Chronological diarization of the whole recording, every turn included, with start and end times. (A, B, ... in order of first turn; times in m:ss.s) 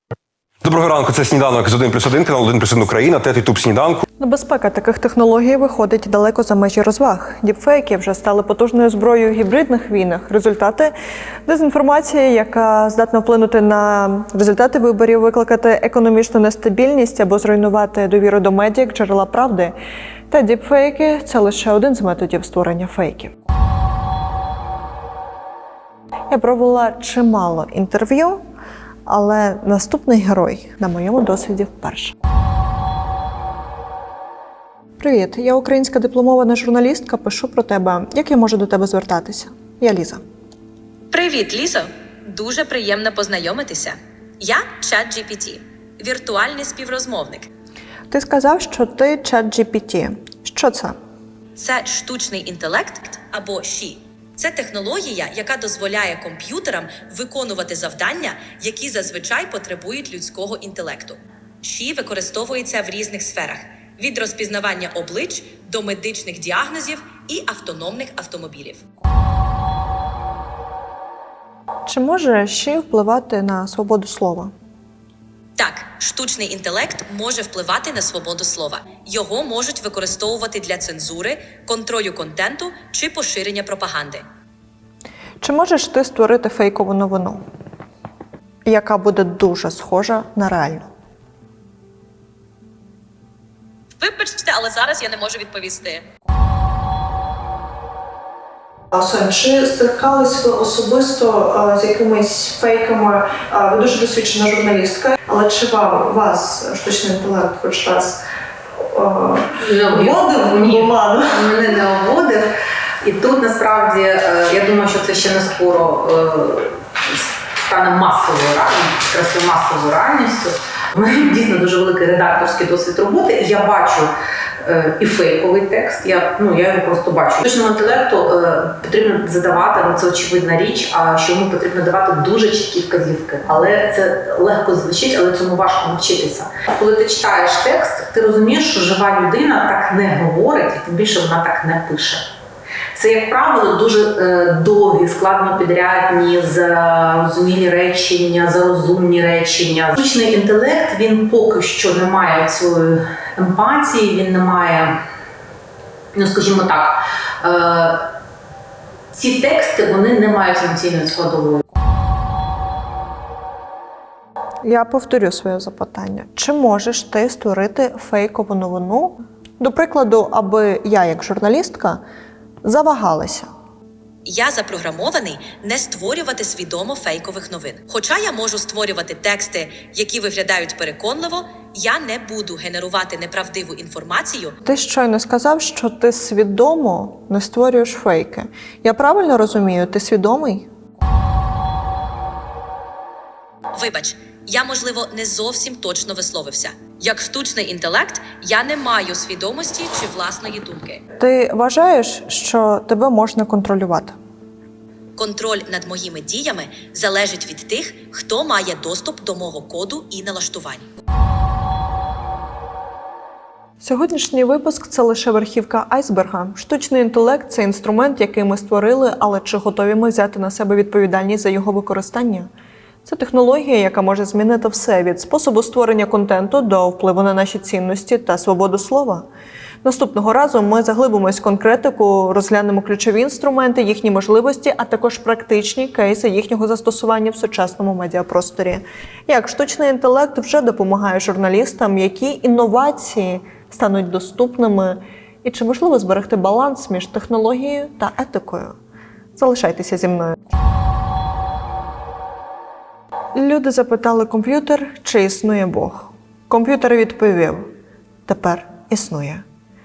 0:00.6-0:04.0 A
0:04.2-0:10.9 B
0:11.4-0:19.7 B
0:20.3-0:23.3 B
0:26.3-0:28.4 B
0:29.0-0:32.1 B
0:35.0-0:40.2 B
0:41.1-0:47.5 C
0:48.1-0:50.9 B
0:51.6-1:08.8 C
1:11.9-1:14.5 B
1:15.6-1:24.2 C
1:25.4-1:27.4 B
1:28.6-1:30.9 B
1:34.0-1:36.0 C
1:38.9-1:48.2 B
1:48.8-1:51.4 B
1:49.6-1:52.5 D
1:53.0-2:04.1 D
2:04.6-2:22.2 D
2:22.9-2:34.9 D
2:36.1-2:38.0 D
2:39.1-2:41.6 D
2:44.6-2:52.0 B
2:52.6-2:53.5 B
2:54.3-3:04.5 C
3:04.6-3:10.7 B
3:13.7-3:21.0 C
3:21.2-3:24.1 B
3:25.2-3:30.8 C
3:33.8-3:42.5 B
3:43.0-3:49.2 B
3:49.8-4:08.7 B
4:09.4-4:10.4 B
4:13.3-4:17.7 B
4:18.3-4:19.4 B